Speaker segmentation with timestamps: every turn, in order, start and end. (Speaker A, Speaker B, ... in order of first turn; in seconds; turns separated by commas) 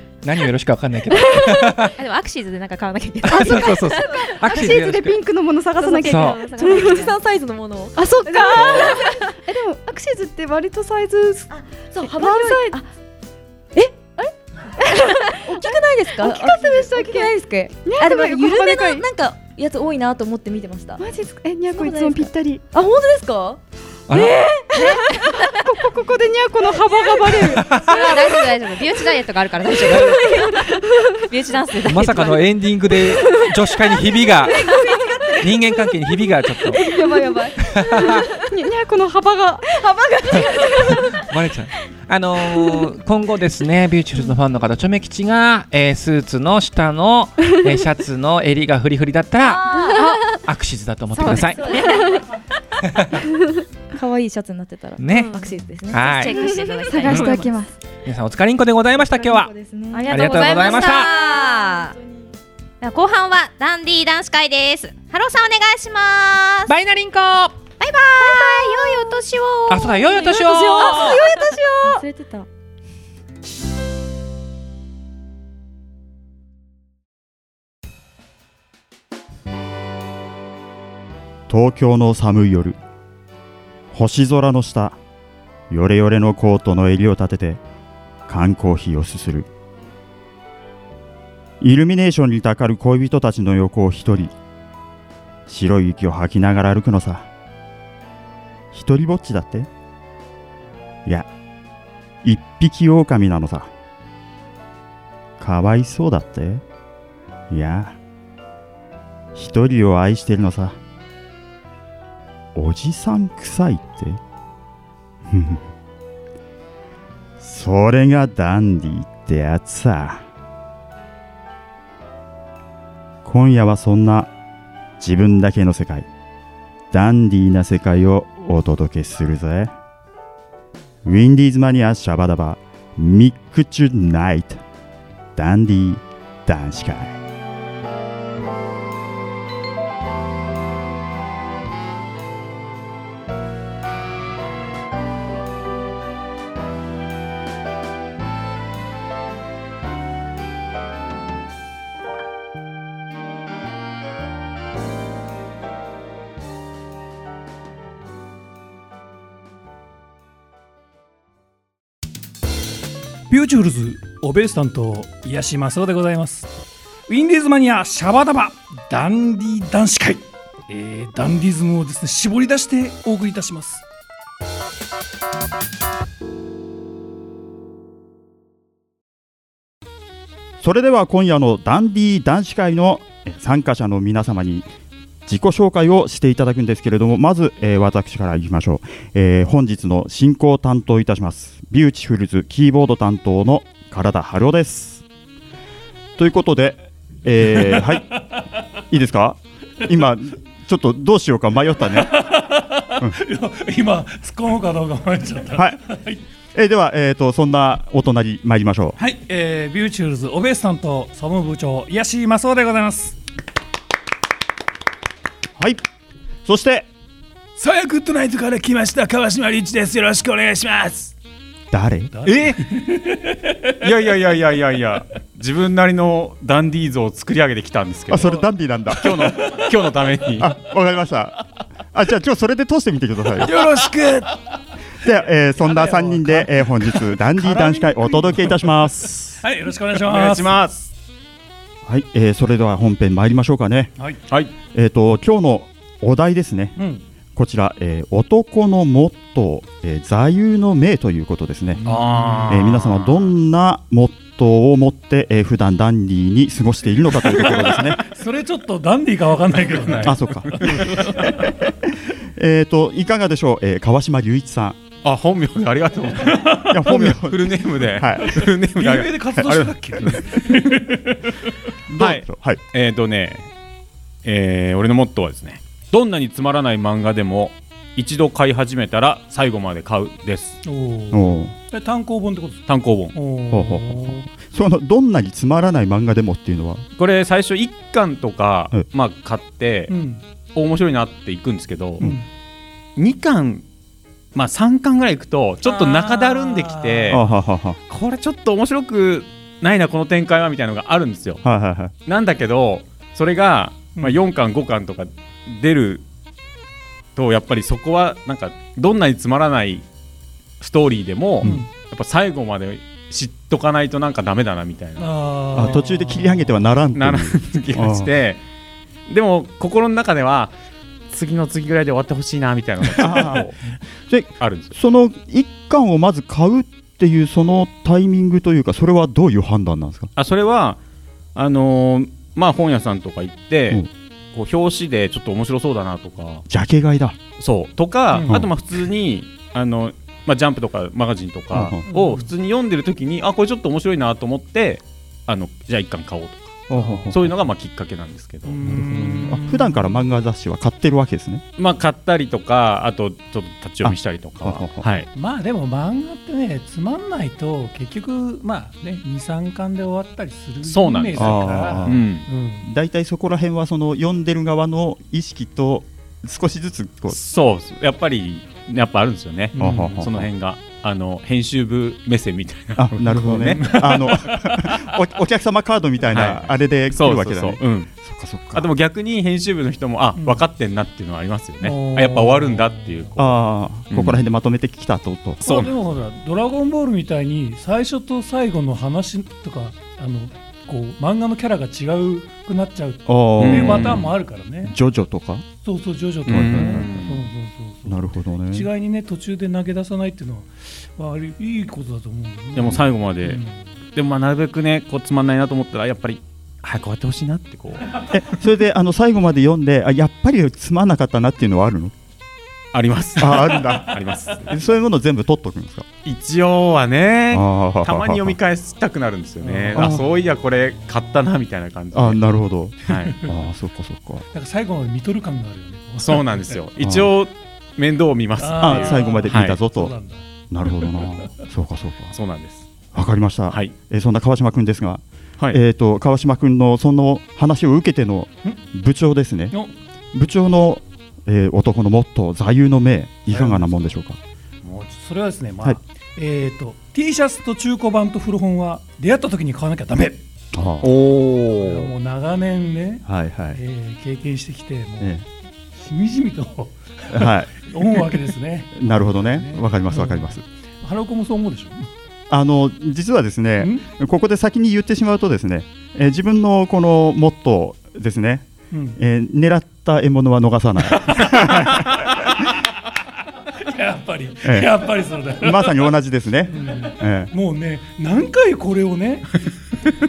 Speaker A: 0.2-1.9, Speaker B: 1.4-1.6, Speaker C: 1.9-4.2, Speaker A: 3.2-5.2, Speaker B: 3.3-3.6, Speaker D: 3.7-4.7, Speaker B: 4.4-7.0, Speaker C: 5.8-7.2, Speaker D: 5.8-9.1, Speaker A: 6.0-6.4, Speaker B: 8.0-11.5, Speaker A: 8.5-9.0, Speaker C: 8.7-9.1, Speaker D: 11.5-12.9, Speaker B: 12.0-12.8, Speaker D: 13.7-14.1, Speaker D: 14.7-21.1, Speaker B: 16.2-17.3, Speaker B: 17.8-19.0, Speaker B: 21.0-22.6, Speaker D: 21.7-23.6, Speaker A: 24.1-24.4, Speaker B: 24.1-27.7, Speaker D: 24.7-25.1, Speaker D: 27.0-27.3, Speaker A: 27.3-28.0, Speaker C: 27.8-30.6, Speaker D: 27.9-28.2, Speaker A: 29.8-30.4, Speaker D: 29.9-30.8, Speaker C: 31.2-32.5, Speaker A: 31.8-34.6, Speaker D: 34.4-35.8, Speaker A: 35.4-36.8, Speaker D: 36.7-38.3, Speaker B: 36.8-37.5, Speaker A: 37.7-38.2, Speaker B: 38.0-39.7, Speaker D: 39.7-41.2, Speaker A: 40.9-49.7, Speaker D: 42.4-42.9, Speaker D: 49.4-50.1, Speaker C: 49.7-50.2, Speaker A: 50.3-51.7, Speaker C: 51.1-52.2, Speaker D: 51.2-52.2, Speaker D: 53.9-57.5, Speaker A: 55.0-56.4, Speaker C: 55.1-57.6, Speaker B: 56.4-57.7, Speaker A: 57.0-57.5, Speaker A: 58.0-59.5, Speaker D: 59.0-62.2, Speaker C: 59.9-61.9, Speaker A: 60.1-61.1, Speaker C: 62.8-66.7, Speaker A: 66.7-67.6, Speaker C: 67.8-72.0, Speaker D: 68.2-69.0, Speaker A: 69.7-71.2, Speaker D: 69.9-72.5, Speaker E: 81.5-82.8, Speaker E: 83.9-85.0, Speaker E: 85.7-87.6, Speaker E: 88.3-89.5, Speaker E: 91.6-94.3, Speaker E: 95.5-97.3, Speaker E: 98.7-99.7, Speaker E: 102.2-103.7, Speaker E: 105.4-106.6, Speaker E: 107.5-108.0, Speaker E: 109.3-110.8, Speaker E: 112.5-114.2, Speaker E: 115.3-115.6, Speaker E: 117.4-120.2, Speaker E: 123.2-124.3, Speaker E: 125.0-126.1, Speaker E: 126.9-129.7, Speaker E: 131.0-134.6, Speaker E: 135.4-137.2, Speaker F: 163.3-166.5, Speaker F: 167.1-173.8, Speaker E: 180.6-184.7, Speaker E: 185.2-195.0, Speaker E: 196.2-198.1, Speaker F: 197.6-198.4, Speaker E: 198.9-202.2, Speaker F: 201.9-206.2, Speaker E: 205.5-205.8, Speaker E: 206.5-209.0, Speaker F: 209.0-213.2, Speaker E: 215.6-215.8, Speaker E: 216.4-216.9, Speaker F: 217.6-221.1, Speaker E: 221.7-222.1, Speaker F: 222.1-224.1, Speaker G: 222.2-222.6, Speaker G: 223.8-228.4, Speaker E: 228.1-229.4, Speaker G: 228.9-230.5, Speaker F: 229.4-229.7, Speaker E: 230.4-233.8, Speaker F: 233.4-234.6, Speaker E: 235.0-239.4, Speaker F: 235.6-240.7, Speaker G: 239.9-240.9, Speaker E: 241.8-243.9, Speaker G: 244.3-244.5, Speaker E: 244.6-246.7, Speaker F: 246.8-247.0, Speaker E: 247.3-251.8, Speaker F: 251.8-252.7, Speaker G: 251.8-253.3, Speaker E: 252.5-258.0, Speaker F: 257.3-261.3, Speaker G: 259.7-260.9, Speaker E: 260.0-264.8, Speaker G: 265.0-270.8, Speaker F: 266.2-267.0, Speaker E: 266.7-268.5, Speaker F: 268.2-271.4, Speaker E: 271.9-272.6, Speaker G: 271.9-273.5, Speaker G: 274.2-280.6, Speaker F: 280.6-284.3, Speaker E: 281.1-281.5, Speaker G: 282.7-283.1, Speaker E: 283.5-286.9, Speaker G: 286.9-289.9, Speaker F: 289.9-290.2, Speaker G: 290.5-292.1, Speaker F: 292.0-292.3, Speaker G: 292.9-293.6, Speaker G: 294.3-297.2, Speaker F: 295.6-297.3, Speaker E: 297.1-297.8, Speaker G: 297.9-301.4, Speaker E: 301.4-301.9, Speaker G: 302.1-306.0, Speaker F: 303.9-304.3, Speaker G: 307.1-309.9, Speaker G: 310.6-315.1, Speaker F: 311.4-311.7, Speaker F: 315.0-316.7, Speaker E: 315.5-318.1, Speaker G: 316.9-318.4, Speaker G: 319.1-320.5, Speaker G: 321.1-323.5, Speaker E: 322.9-330.1, Speaker G: 324.4-324.7, Speaker G: 330.1-330.8, Speaker G: 331.3-336.4, Speaker E: 336.5-337.2, Speaker G: 337.4-348.6, Speaker F: 338.1-338.5, Speaker E: 341.5-341.8, Speaker F: 341.8-342.3, Speaker E: 346.7-347.3, Speaker F: 346.7-347.1, Speaker F: 348.4-350.0, Speaker E: 348.6-351.4, Speaker G: 351.6-355.1, Speaker E: 353.8-355.0, Speaker F: 355.1-362.7, Speaker G: 360.6-362.3, Speaker E: 361.1-367.2, Speaker G: 367.1-374.2, Speaker F: 369.6-369.8, Speaker E: 369.6-370.3, Speaker E: 372.8-378.7, Speaker G: 376.1-377.9, Speaker G: 378.5-384.2, Speaker F: 380.2-380.4, Speaker F: 381.6-383.1, Speaker E: 383.2-385.4, Speaker F: 385.4-394.7, Speaker G: 385.4-385.7, Speaker E: 393.1-394.1, Speaker G: 393.4-394.1, Speaker E: 394.6-395.4, Speaker F: 395.6-403.6, Speaker G: 396.3-397.3, Speaker E: 396.3-397.0, Speaker E: 397.8-398.7, Speaker G: 402.6-403.4, Speaker G: 403.9-407.9, Speaker E: 408.1-411.9, Speaker G: 412.7-414.5, Speaker E: 413.2-415.9, Speaker G: 416.0-422.2, Speaker E: 417.3-418.4, Speaker F: 419.4-421.2, Speaker E: 419.8-420.0, Speaker E: 421.9-424.2, Speaker G: 422.9-423.1, Speaker F: 424.3-426.7, Speaker G: 426.0-429.6, Speaker E: 426.8-427.1, Speaker F: 428.4-430.3, Speaker E: 428.6-429.9, Speaker E: 430.5-432.1, Speaker G: 432.1-432.7, Speaker E: 432.9-439.6, Speaker G: 433.5-433.7, Speaker E: 440.1-444.2, Speaker F: 443.3-443.9, Speaker F: 444.6-450.2, Speaker E: 450.5-451.0, Speaker G: 450.8-451.9, Speaker F: 451.5-455.2, Speaker E: 453.1-453.6, Speaker F: 455.7-461.9, Speaker E: 457.1-458.2, Speaker E: 458.7-460.4, Speaker E: 462.3-472.1, Speaker F: 463.6-463.9, Speaker F: 468.7-469.0, Speaker F: 470.9-471.8, Speaker F: 473.6-475.9, Speaker E: 474.4-474.8, Speaker E: 475.4-477.3, Speaker F: 476.5-479.4